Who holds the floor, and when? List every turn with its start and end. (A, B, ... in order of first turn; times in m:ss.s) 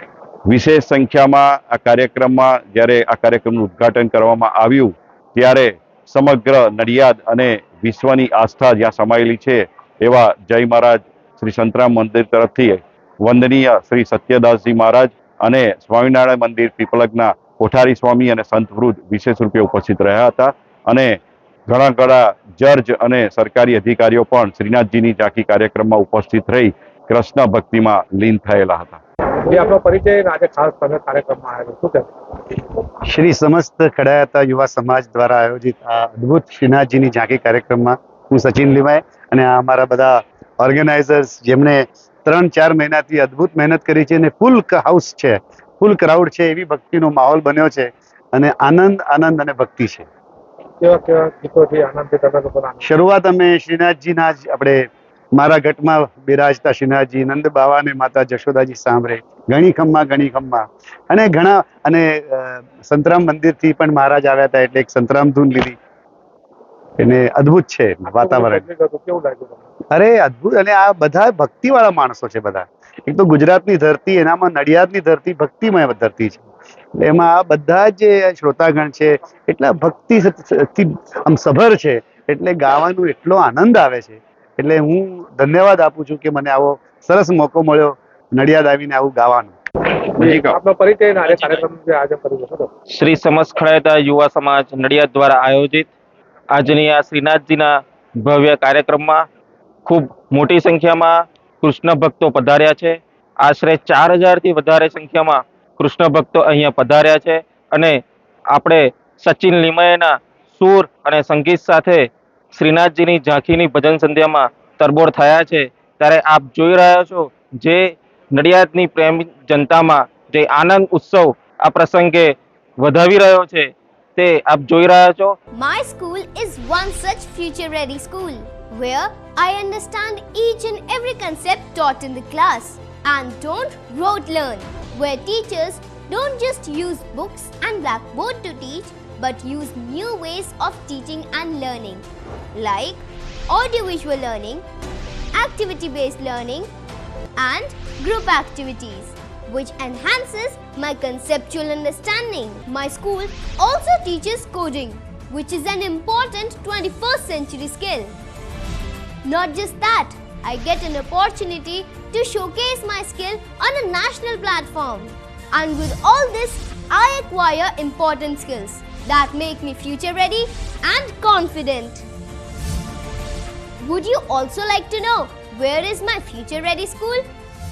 0:00.5-0:29.0 A
0:29.4-0:32.1 B
0:33.1-0:50.1 C
0:50.8-0:52.8 B
0:52.8-0:54.8 C
0:55.4-1:05.8 C
1:07.0-1:08.6 C
1:08.1-1:09.7 B
1:09.9-1:16.4 C
1:17.0-1:29.6 C
1:30.2-1:30.6 A
1:30.2-1:32.7 B
1:31.3-1:31.6 D
1:32.9-1:35.9 D
1:36.5-1:39.2 D
1:39.8-1:48.0 D
1:48.5-2:05.4 D
2:05.5-2:24.6 E
2:25.3-2:26.7 E
2:27.4-2:38.1 E
2:39.2-2:52.0 E
2:53.8-2:57.3 E